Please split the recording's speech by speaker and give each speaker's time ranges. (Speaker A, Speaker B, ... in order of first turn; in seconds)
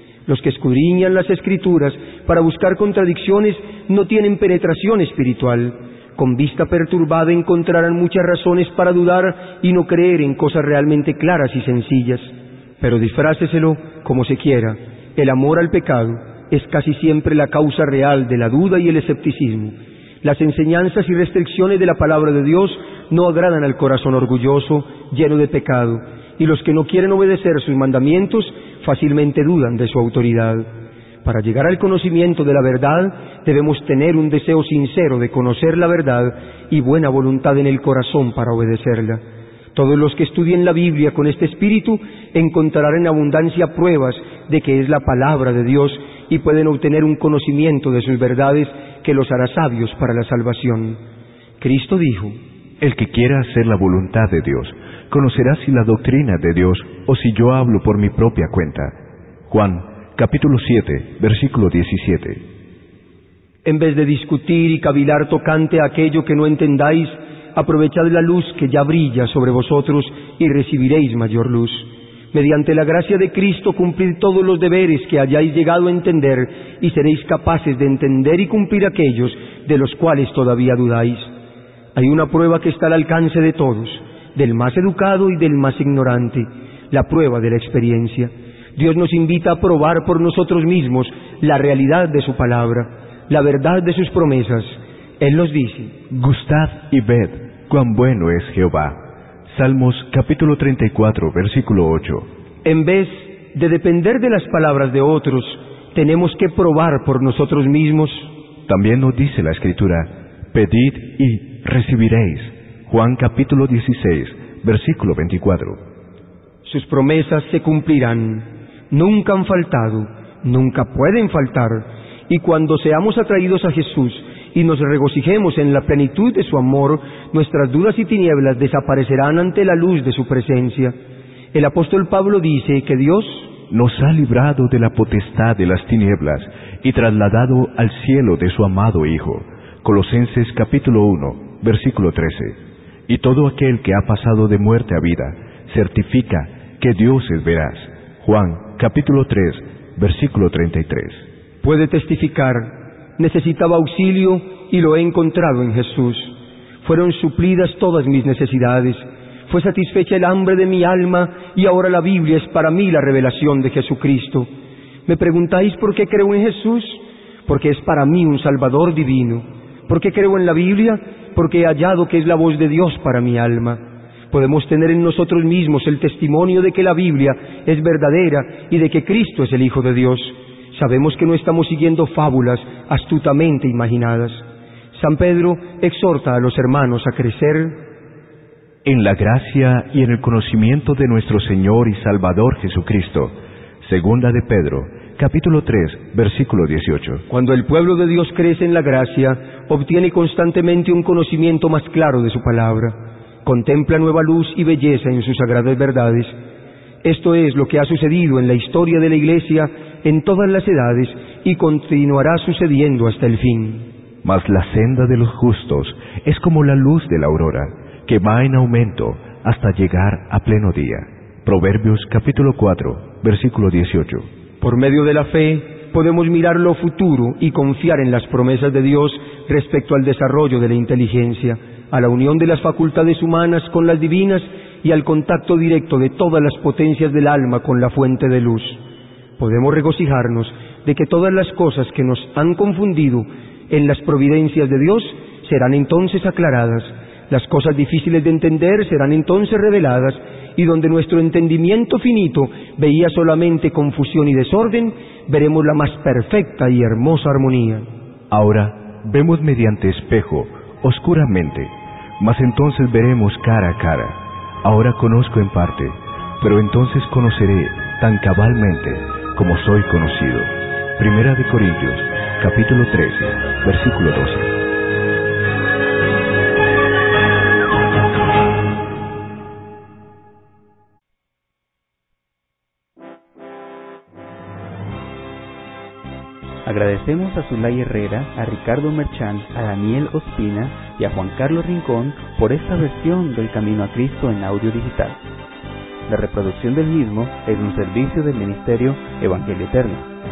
Speaker A: 0.3-30.7, 31.2-39.2, 39.8-51.0, 51.6-52.4, 63.6-81.3, 82.0-96.0, 102.7-108.3, 116.7-130.9, 131.5-133.5, 151.6-164.5, 165.1-187.8, 197.3-206.3, 207.0-213.9, 224.6-238.8, 239.4-257.9
Speaker B: 52.8-59.0, 59.5-62.4, 96.1-102.3, 108.7-115.8, 133.7-151.3, 188.8-197.2, 214.2-224.3, 258.3-274.6
Speaker C: 286.6-295.2, 296.1-300.1